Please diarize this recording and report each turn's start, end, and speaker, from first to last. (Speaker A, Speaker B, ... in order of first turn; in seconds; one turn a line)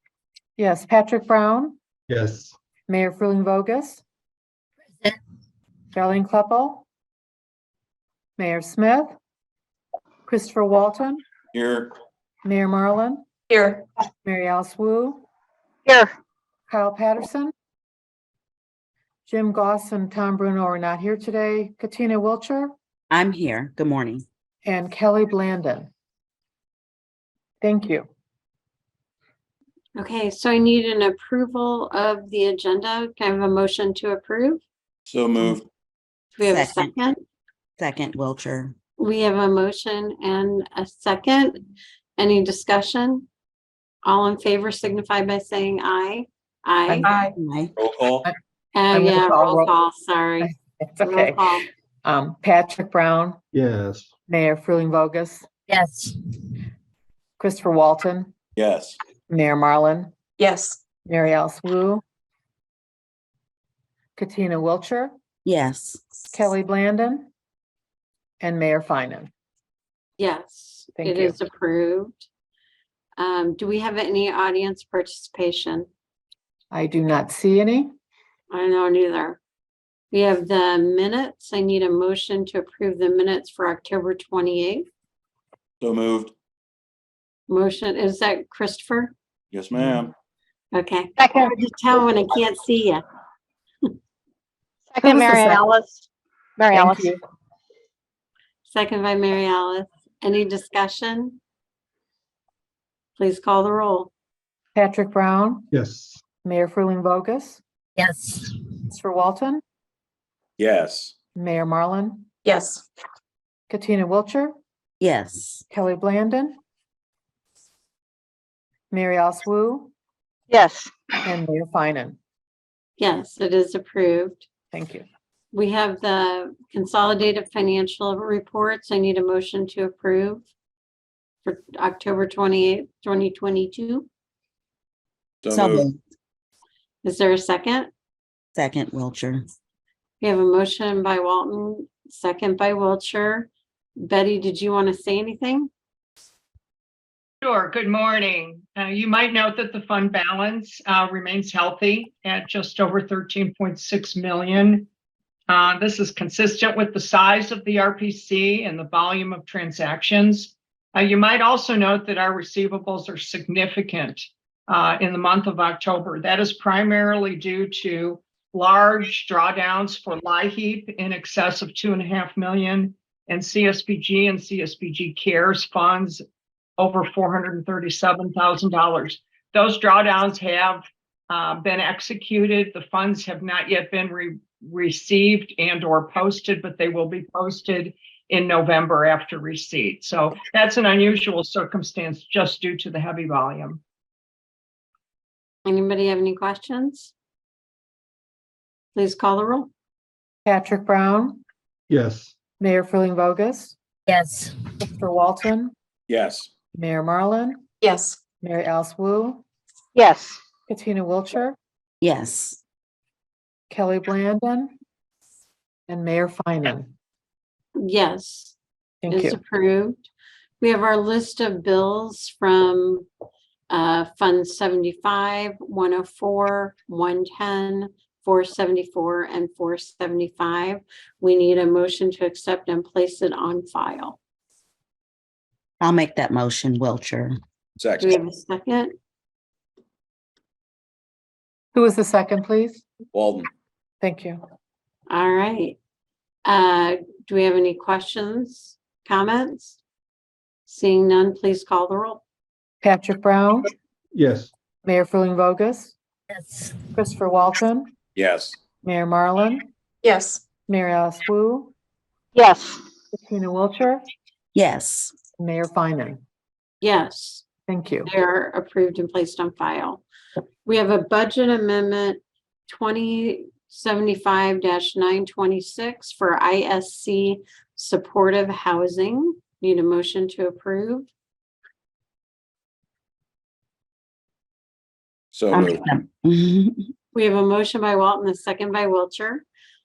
Speaker A: 0.6-1.8
Speaker B: 2.1-2.5
Speaker A: 2.9-4.0
Speaker A: 5.9-6.8
Speaker A: 8.4-9.2
Speaker A: 10.2-11.2
Speaker C: 11.5-11.9
Speaker A: 12.4-13.2
Speaker D: 13.5-13.8
Speaker A: 14.2-15.2
Speaker D: 15.8-16.1
Speaker A: 16.7-17.5
Speaker A: 19.3-22.7
Speaker E: 23.1-24.2
Speaker A: 24.6-25.9
Speaker A: 27.6-28.1
Speaker F: 29.9-34.6
Speaker C: 35.0-35.7
Speaker F: 36.3-37.2
Speaker E: 36.4-36.9
Speaker E: 37.8-38.8
Speaker F: 39.0-43.2
Speaker F: 44.0-47.1
Speaker A: 46.9-47.3
Speaker E: 47.3-47.7
Speaker C: 47.8-48.3
Speaker F: 48.7-51.7
Speaker A: 48.9-49.7
Speaker A: 50.4-51.5
Speaker A: 52.0-53.4
Speaker B: 53.5-54.1
Speaker A: 54.3-55.5
Speaker E: 55.7-56.1
Speaker A: 57.4-58.3
Speaker C: 58.5-59.0
Speaker A: 59.3-60.1
Speaker D: 60.4-60.8
Speaker A: 61.0-62.0
Speaker A: 64.2-65.1
Speaker E: 65.5-66.0
Speaker A: 66.3-67.3
Speaker A: 68.4-69.3
Speaker F: 70.2-72.3
Speaker A: 71.0-71.3
Speaker F: 73.2-75.9
Speaker A: 76.7-77.9
Speaker F: 78.5-79.4
Speaker F: 80.1-84.8
Speaker C: 85.8-86.3
Speaker F: 87.5-89.1
Speaker C: 89.5-90.1
Speaker F: 90.7-93.0
Speaker D: 91.2-91.6
Speaker D: 94.9-96.0
Speaker A: 95.0-95.6
Speaker D: 96.6-97.2
Speaker A: 96.7-97.2
Speaker F: 98.7-101.4
Speaker F: 103.2-104.1
Speaker A: 104.7-105.7
Speaker B: 105.7-106.2
Speaker A: 106.4-107.6
Speaker A: 108.9-109.6
Speaker C: 110.6-111.1
Speaker A: 111.3-112.3
Speaker D: 112.5-112.8
Speaker A: 113.7-114.5
Speaker E: 115.0-115.6
Speaker A: 115.7-116.6
Speaker A: 118.9-119.9
Speaker D: 120.5-120.9
Speaker A: 121.2-122.2
Speaker F: 123.0-124.5
Speaker A: 124.7-125.0
Speaker F: 125.5-130.5
Speaker F: 131.4-134.1
Speaker C: 135.4-135.9
Speaker E: 135.5-136.0
Speaker F: 137.0-137.9
Speaker E: 138.6-139.4
Speaker F: 140.2-145.7
Speaker G: 147.4-154.9
Speaker G: 155.5-176.2
Speaker G: 176.8-193.8
Speaker F: 195.6-197.1
Speaker F: 198.9-199.7
Speaker A: 200.4-201.4
Speaker B: 201.9-202.3
Speaker A: 202.6-203.8
Speaker E: 204.1-204.5
Speaker A: 204.8-205.7
Speaker C: 206.1-206.5
Speaker A: 206.7-207.6
Speaker D: 207.8-208.2
Speaker A: 208.4-209.4
Speaker D: 209.9-210.4
Speaker A: 210.7-211.6
Speaker E: 212.0-212.6
Speaker A: 213.7-214.7
Speaker A: 215.9-216.9
Speaker F: 217.8-218.6
Speaker A: 219.0-219.4
Speaker F: 219.1-220.1
Speaker F: 220.6-223.1
Speaker F: 223.7-234.2
Speaker E: 235.8-237.4
Speaker C: 237.8-238.2
Speaker F: 238.0-238.9
Speaker A: 241.7-242.8
Speaker C: 243.1-243.5
Speaker A: 244.0-244.4
Speaker F: 245.1-245.8
Speaker F: 246.4-249.8
Speaker F: 250.7-252.2
Speaker A: 252.8-253.7
Speaker B: 254.1-254.5
Speaker A: 254.8-255.9
Speaker A: 256.9-257.9
Speaker C: 258.1-258.6
Speaker A: 258.8-259.7
Speaker D: 260.0-260.4
Speaker A: 260.7-261.7
Speaker D: 262.3-262.8
Speaker A: 263.1-264.0
Speaker E: 264.5-265.1
Speaker A: 265.4-266.2
Speaker F: 266.8-267.5
Speaker A: 267.7-268.1
Speaker F: 268.1-270.0
Speaker F: 270.6-281.1
Speaker C: 285.3-285.8
Speaker E: 285.5-286.9
Speaker F: 287.1-289.4